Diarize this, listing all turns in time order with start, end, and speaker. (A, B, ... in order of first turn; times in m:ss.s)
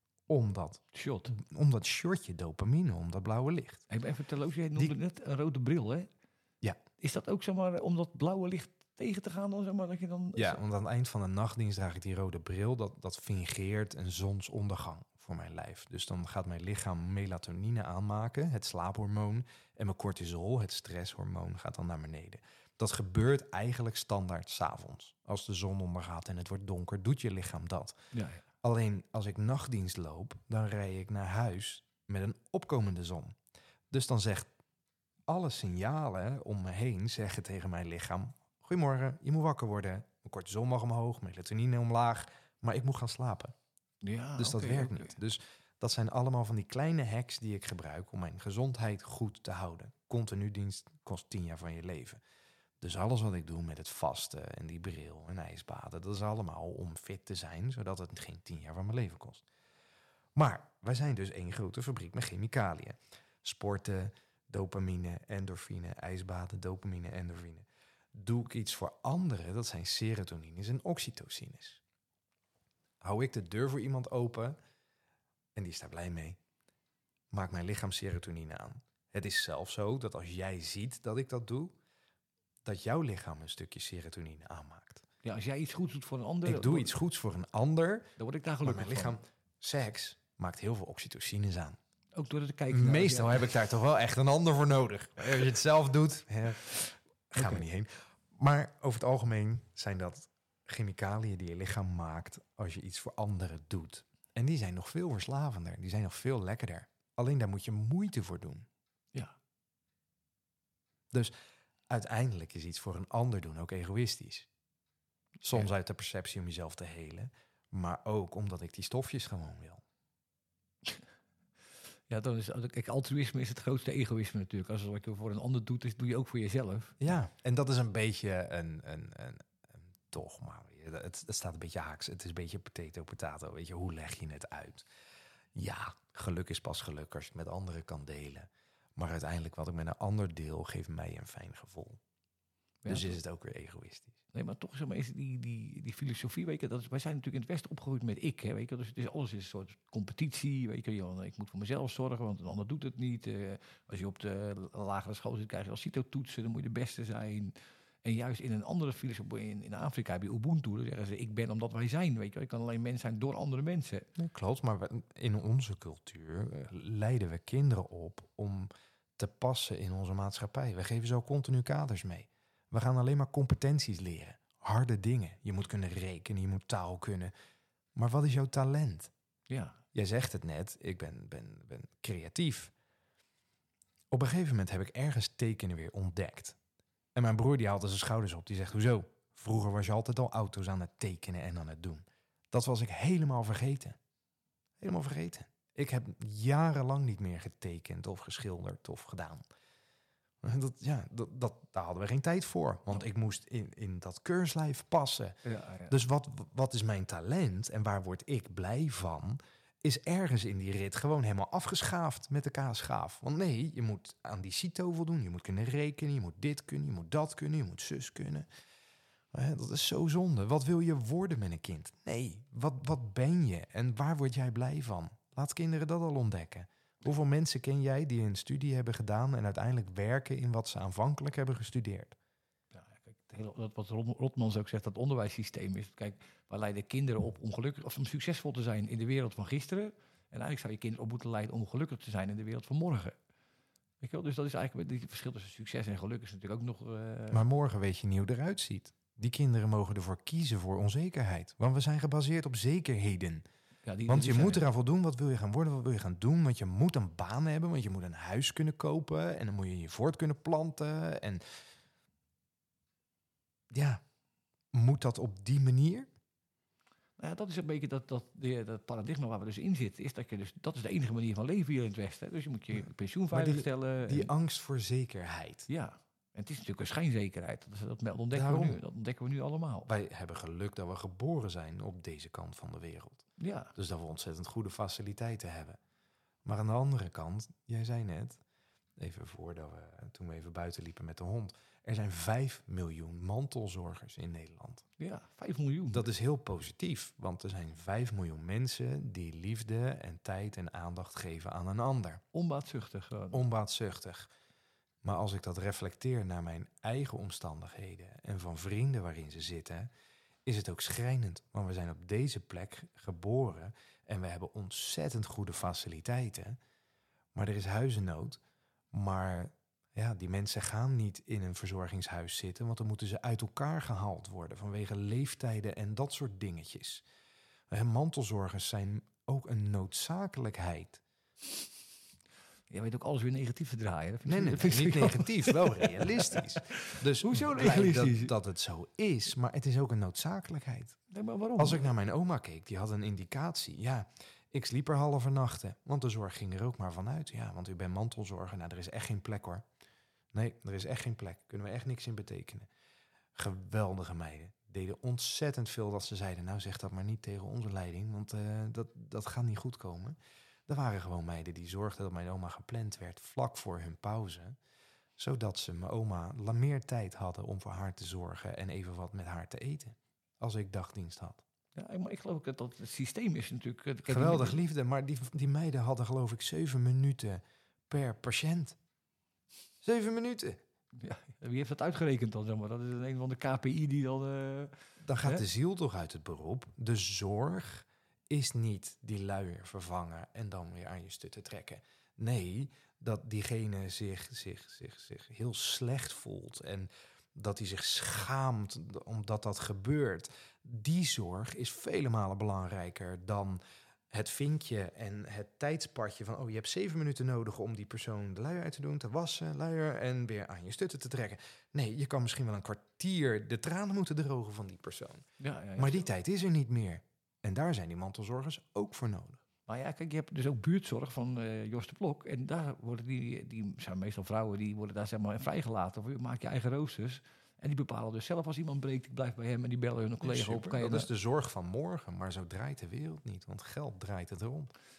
0:00.3-0:03.8 A
0:00.9-0:01.4 B
0:03.9-0:06.1 B
0:07.0-0:10.6 B
0:10.4-0:28.0 A
0:28.1-0:28.4 B
0:28.6-0:33.4 A
0:33.9-0:34.5 A
0:35.3-0:43.5 A
0:44.0-0:45.2 B
0:44.4-0:52.2 A
0:52.8-0:59.4 A
1:00.4-1:11.8 A
1:13.0-1:14.6 A
1:15.5-1:16.4 A
1:17.3-1:21.8 A
1:22.6-1:25.0 A
1:25.2-1:26.9 B
1:26.4-1:28.1 A
1:28.2-1:29.2 B
1:28.6-1:31.8 A
1:32.2-1:33.5 B
1:32.7-1:48.7 A
1:37.4-1:37.6 B
1:51.9-1:54.5 A
1:55.4-1:59.8 A
2:02.1-2:07.0 B
2:07.0-2:14.9 A
2:15.5-2:22.0 A
2:22.8-2:23.2 B
2:22.9-2:24.2 A
2:24.3-2:44.1 B
2:44.2-2:57.3 A
2:57.9-2:59.1 A
2:59.5-2:59.8 B
2:59.9-3:02.7 A
3:04.1-3:06.6 A
3:07.1-3:14.0 A
3:14.8-3:19.4 A
3:20.4-3:25.4 A
3:25.4-3:26.0 B
3:25.9-3:38.5 A
3:39.3-3:52.1 A
3:52.7-4:03.2 B
4:04.0-4:07.4 B
4:07.3-4:13.4 A
4:13.8-4:14.6 B
4:14.1-4:21.4 A
4:23.7-4:24.0 A
4:24.7-4:26.1 A
4:27.2-4:34.3 B
4:33.3-4:35.7 A
4:35.7-4:39.9 B
4:38.3-4:38.8 A
4:39.8-4:45.8 A
4:43.4-4:43.7 B
4:46.4-4:48.4 A
4:49.0-4:54.8 A
4:55.0-4:56.0 B
4:55.9-5:02.2 A
5:02.3-5:03.4 B
5:03.3-5:04.3 A
5:05.0-5:09.9 A
5:10.4-5:16.6 A
5:17.3-5:18.4 A
5:18.9-5:27.0 A
5:27.7-5:31.0 A
5:32.7-5:38.3 B
5:34.2-5:41.0 A
5:41.1-5:41.9 B
5:41.6-5:49.6 A
5:50.3-5:52.7 A
5:53.3-6:00.2 A
6:00.7-6:04.6 A
6:05.2-6:11.4 A
6:11.8-6:14.6 B
6:14.1-6:18.8 A
6:19.8-6:20.6 A
6:21.0-6:25.4 B
6:25.0-6:55.2 A
6:55.4-6:56.1 B
6:55.8-6:59.4 A
6:59.7-7:11.1 B
7:10.2-7:14.7 A